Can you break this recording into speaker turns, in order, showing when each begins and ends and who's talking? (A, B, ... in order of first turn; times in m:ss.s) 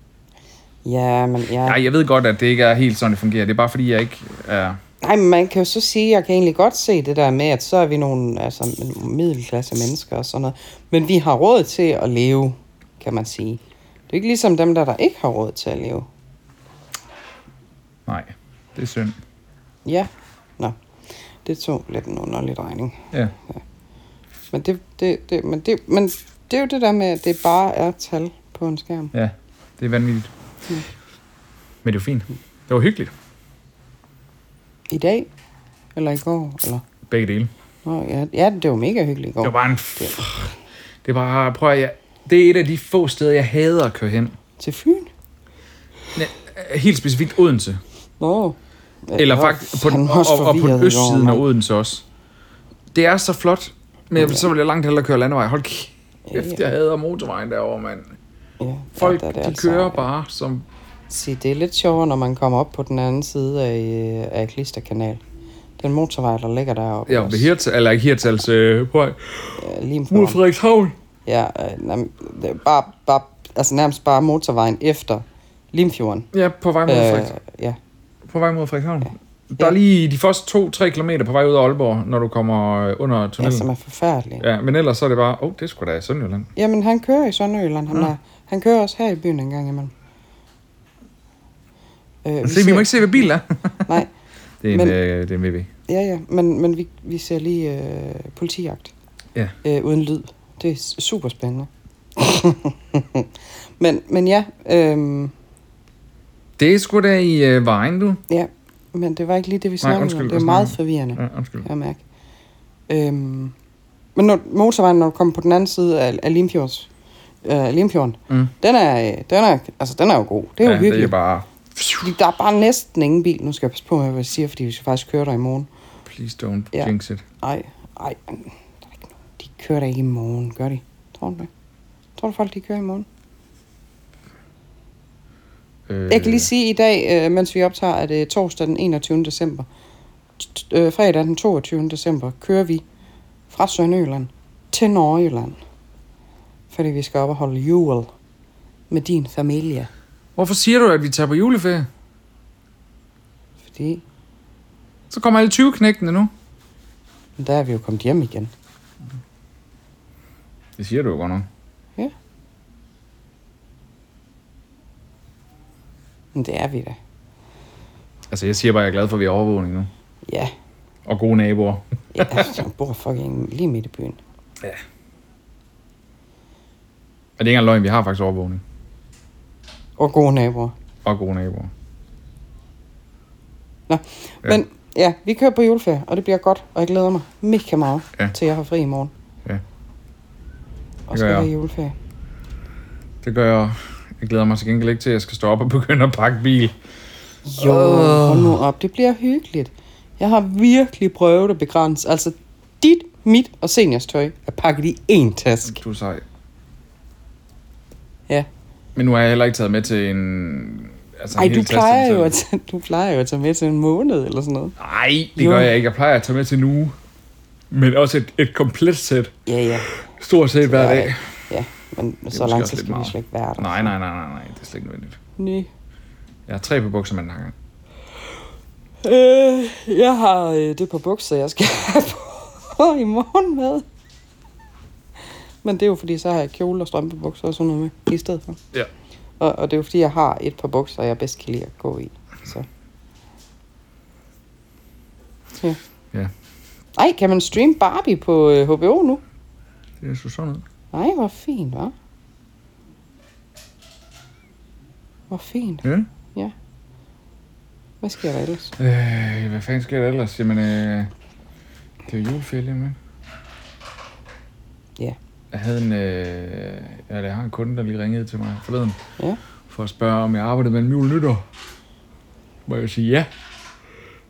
0:00.8-0:01.8 A
0:01.6-0:04.8 B
0:05.0-0:16.1 A
0:18.1-0:19.2 B
0:19.8-0:20.8 A
0:21.4-0:23.6 A
0:24.5-0:29.1 A
0:29.1-0:30.3 B
0:31.8-0:33.1 B
0:34.9-0:35.3 A
0:36.0-0:36.8 A
0:37.1-0:37.5 B
0:37.8-0:40.2 A
0:39.4-0:40.5 B
0:41.0-0:44.4 B
0:44.6-0:45.1 A
0:46.2-0:47.8 B
0:48.2-0:51.4 A
0:49.2-0:52.0 B
0:52.9-0:58.2 B
0:54.2-0:54.4 A
0:56.3-0:56.6 A
0:58.6-1:00.1 A
0:59.0-1:00.7 B
1:01.1-1:05.2 A
1:05.8-1:07.5 A
1:07.1-1:11.0 B
1:09.6-1:10.4 A
1:11.3-1:16.3 A
1:16.3-1:17.3 B
1:16.9-1:17.8 A
1:18.3-1:23.7 B
1:23.4-1:24.4 A
1:24.4-1:26.5 B
1:26.6-1:29.9 A
1:32.2-1:33.3 A
1:32.4-1:34.0 B
1:33.8-1:34.1 A
1:34.6-1:35.7 B
1:34.7-1:35.0 A
1:35.9-1:38.9 A
1:39.6-1:43.3 A
1:43.8-1:45.3 A
1:46.6-1:48.2 B
1:48.3-1:52.0 A
1:49.8-1:51.7 B
1:52.9-1:53.5 A
1:54.2-1:56.9 A
1:57.4-2:01.2 A
2:00.6-2:02.1 B
2:02.0-2:05.7 A
2:06.1-2:07.2 B
2:06.7-2:11.5 A
2:12.2-2:13.1 A
2:15.9-2:16.5 B
2:16.1-2:19.7 A
2:20.4-2:22.8 A
2:23.5-2:25.6 A
2:26.7-2:28.1 A
2:28.9-2:29.9 A
2:30.4-2:31.9 B
2:33.7-2:34.0 A
2:35.1-2:36.3 B
2:37.4-2:38.5 A
2:40.8-2:41.5 B
2:46.3-2:47.0 A
2:48.3-2:49.9 B
2:50.3-2:50.5 A
2:51.1-2:52.5 B
2:52.1-2:54.2 A
2:57.4-2:58.6 B
3:00.0-3:00.7 A
3:01.0-3:01.7 B
3:03.9-3:09.1 A
3:11.1-3:12.0 A
3:11.1-3:11.5 B
3:13.2-3:16.8 B
3:17.5-3:25.8 A
3:17.6-3:18.6 B
3:25.7-3:26.2 B
3:29.0-3:32.3 B
3:31.4-3:34.8 A
3:34.8-3:37.0 B
3:35.4-3:35.7 A
3:37.7-3:39.3 B
3:39.5-3:39.9 A
3:40.1-3:41.2 B
3:40.6-3:43.9 A
3:42.3-3:45.2 B
3:45.4-3:45.7 A
3:46.5-3:47.5 B
3:49.0-3:53.8 A
3:55.6-3:58.6 A
3:59.4-4:02.7 A
4:07.0-4:09.2 A
4:10.0-4:10.6 B
4:10.9-4:11.9 A
4:15.3-4:16.5 A
4:18.0-4:18.8 A
4:18.8-4:21.1 B
4:22.1-4:23.0 B
4:25.5-4:29.0 B
4:29.7-4:31.4 B
4:32.7-4:33.3 B